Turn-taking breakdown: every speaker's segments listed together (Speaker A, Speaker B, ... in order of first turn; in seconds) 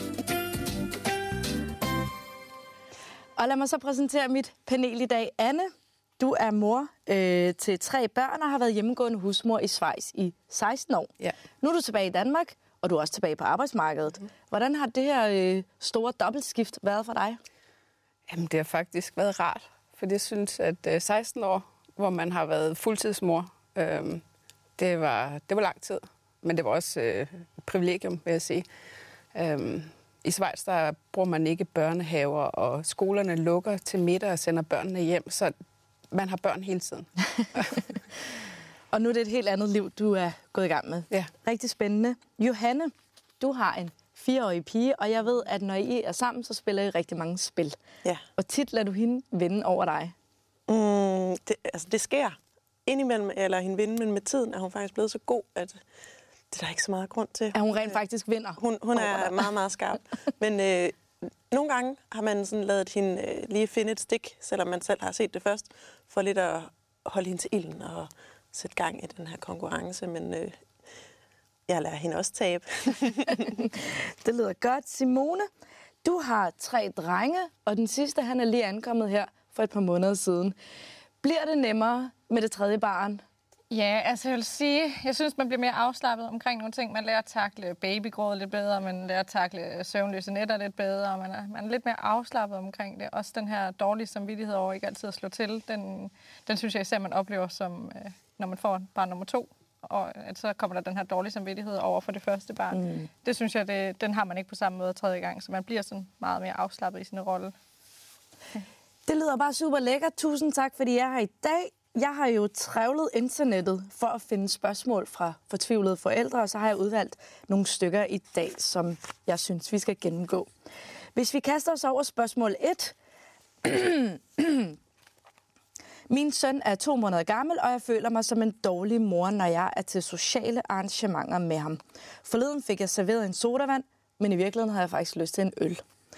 Speaker A: 3.4-17.4, 37.7-38.0, 38.9-47.8, 48.4-50.1, 57.5-59.5, 73.5-75.5, 76.0-80.5, 81.2-83.2, 102.7-103.1, 109.1-120.5, 121.2-123.0, 123.6-124.8, 126.1-135.8
Speaker B: 18.3-24.2, 24.8-28.7, 29.3-35.5, 36.1-37.9
Speaker C: 50.7-55.8, 56.5-57.9, 58.6-70.6, 71.7-73.5
Speaker D: 83.7-107.5